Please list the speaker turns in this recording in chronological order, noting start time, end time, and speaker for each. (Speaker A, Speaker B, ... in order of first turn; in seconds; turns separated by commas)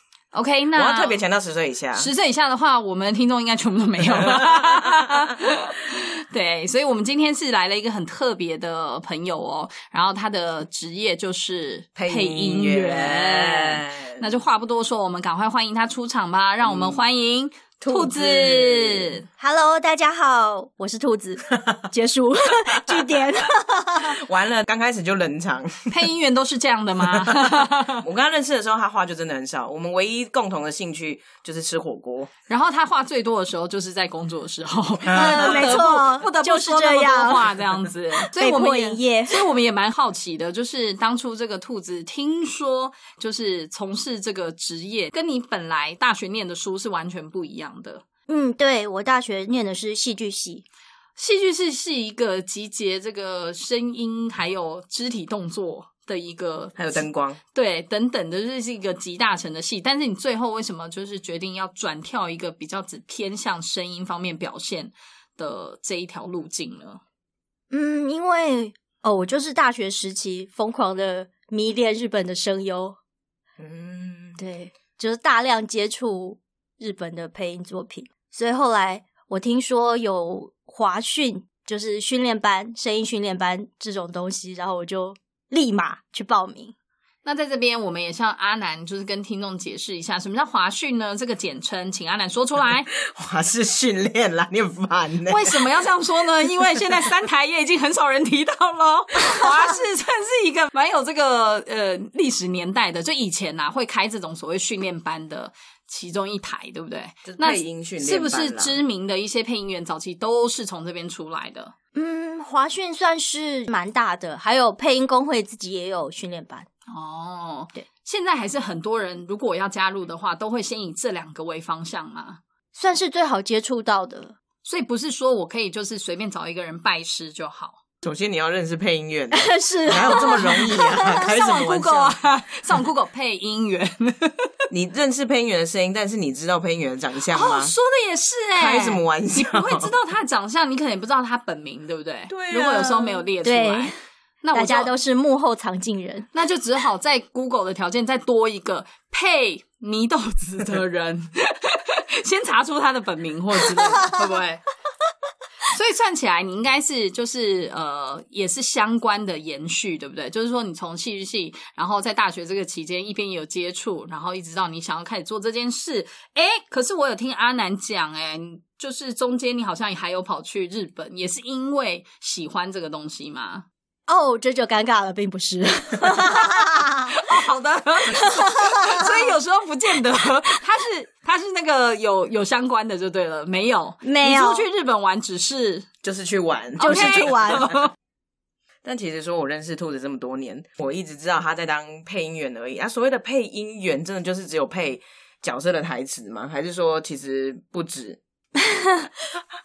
Speaker A: 0.3-1.2, Speaker B: 0.7-2.1, Speaker A: 1.9-19.3, Speaker B: 11.9-14.3, Speaker B: 16.6-17.0, Speaker B: 17.8-19.2, Speaker C: 19.4-24.2, Speaker B: 24.1-25.7, Speaker A: 25.9-28.0, Speaker B: 27.0-32.3, Speaker A: 32.5-48.0, Speaker B: 35.0-35.8, Speaker C: 35.1-37.6, Speaker C: 38.2-39.5, Speaker C: 48.3-50.6, Speaker A: 51.1-67.0, Speaker B: 56.8-57.4, Speaker C: 67.7-73.0, Speaker B: 73.6-74.4, Speaker C: 74.4-86.7, Speaker A: 87.2-92.9, Speaker B: 92.9-95.7, Speaker A: 95.2-111.7, Speaker B: 107.2-108.8, Speaker C: 111.9-116.7, Speaker A: 116.9-122.4, Speaker C: 122.7-124.3, Speaker A: 124.6-127.8, Speaker B: 128.0-132.2, Speaker C: 129.3-131.3, Speaker A: 130.3-130.6, Speaker A: 131.1-134.5, Speaker B: 134.7-137.7, Speaker A: 137.2-144.9, Speaker B: 138.5-139.9, Speaker B: 142.3-143.3, Speaker C: 143.4-143.9, Speaker C: 144.5-146.3, Speaker A: 146.3-154.6, Speaker A: 155.7-173.7, Speaker C: 174.1-177.1, Speaker A: 176.2-185.8, Speaker C: 178.1-179.1, Speaker C: 184.0-184.7, Speaker B: 186.0-187.9, Speaker A: 186.8-187.9, Speaker C: 186.8-187.7, Speaker B: 188.8-198.2, Speaker C: 198.6-199.1